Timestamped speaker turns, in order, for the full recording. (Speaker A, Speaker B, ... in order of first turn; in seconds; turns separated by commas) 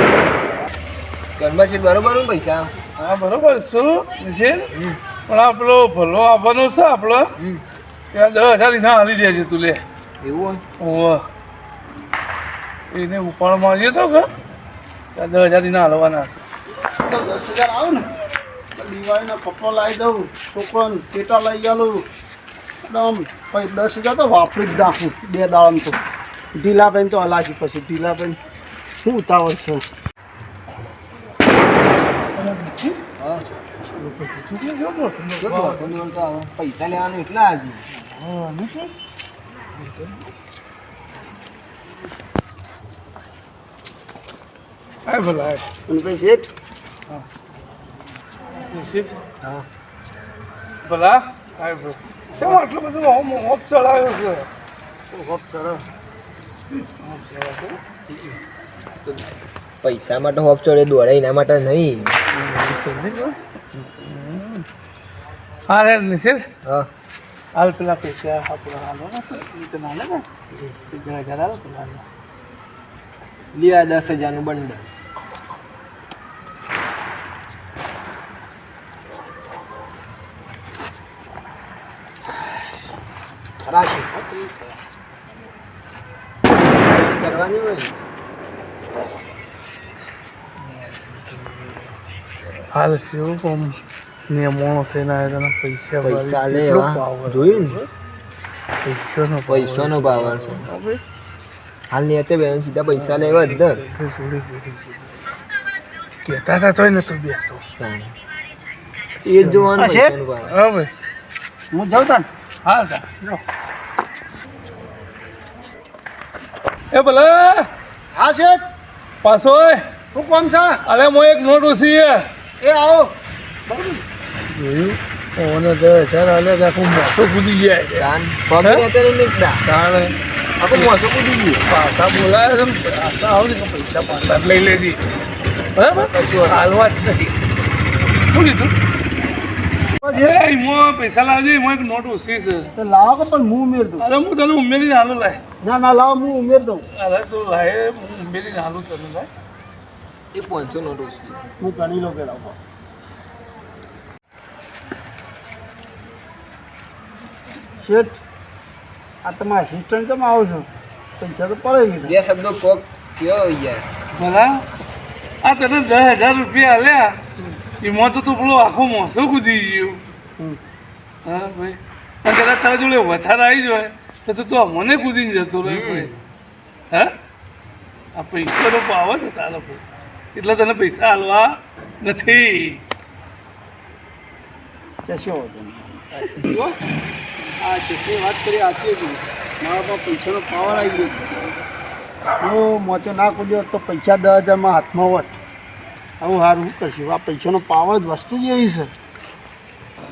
Speaker A: 1.4-2.7, Speaker B: 3.0-4.7, Speaker B: 5.3-7.3, Speaker A: 7.4-7.6, Speaker B: 8.1-9.8, Speaker A: 10.2-10.6, Speaker B: 10.8-11.2, Speaker B: 12.9-14.3, Speaker B: 15.1-16.4, Speaker C: 16.9-18.1, Speaker C: 18.8-22.0, Speaker C: 22.8-26.0, Speaker C: 26.5-28.4, Speaker C: 29.0-29.8, Speaker B: 32.3-33.0, Speaker A: 33.2-33.4, Speaker B: 34.0-35.9, Speaker A: 35.4-37.9, Speaker B: 38.0-38.9, Speaker B: 45.0-45.7, Speaker C: 45.9-46.5, Speaker B: 48.6-49.3, Speaker B: 50.8-54.5, Speaker C: 55.1-55.9, Speaker B: 57.0-57.8, Speaker A: 59.8-62.1, Speaker B: 62.3-64.6, Speaker B: 65.7-66.5, Speaker A: 66.6-66.9, Speaker B: 67.5-70.2, Speaker B: 70.8-72.0, Speaker A: 73.5-74.9, Speaker C: 83.6-84.8, Speaker A: 86.7-88.0, Speaker B: 90.6-91.8, Speaker B: 92.7-97.9, Speaker A: 96.0-97.8, Speaker B: 98.8-101.0, Speaker A: 99.5-100.7, Speaker A: 101.9-103.8, Speaker B: 102.9-105.2, Speaker B: 106.2-107.6, Speaker A: 107.8-108.1, Speaker A: 109.2-110.5, Speaker C: 109.7-110.1, Speaker B: 110.5-110.9, Speaker C: 111.7-112.3, Speaker B: 112.6-113.4, Speaker B: 116.9-117.7, Speaker C: 118.1-118.6, Speaker B: 119.2-119.8, Speaker C: 120.1-120.8, Speaker B: 120.8-122.3, Speaker C: 122.6-123.1, Speaker C: 123.7-124.0, Speaker B: 124.5-128.1, Speaker A: 128.0-129.6, Speaker B: 129.6-130.2, Speaker A: 130.6-131.6, Speaker B: 131.6-135.0, Speaker B: 135.7-137.3, Speaker A: 135.9-136.7, Speaker B: 138.2-138.7, Speaker C: 140.0-140.4, Speaker B: 140.1-142.7, Speaker C: 142.8-144.1, Speaker B: 144.0-145.4, Speaker C: 145.6-146.8, Speaker B: 146.9-149.3, Speaker A: 150.3-151.4, Speaker C: 151.6-152.6, Speaker C: 157.8-158.2, Speaker C: 159.2-160.7, Speaker C: 161.2-162.1, Speaker A: 162.0-163.9, Speaker B: 164.1-164.5, Speaker B: 165.4-167.2, Speaker B: 167.8-170.0, Speaker B: 171.2-176.1, Speaker A: 175.6-176.1, Speaker B: 178.1-179.8, Speaker B: 180.3-182.8, Speaker C: 185.0-186.8, Speaker C: 187.6-191.3, Speaker C: 192.4-195.3, Speaker C: 196.2-198.9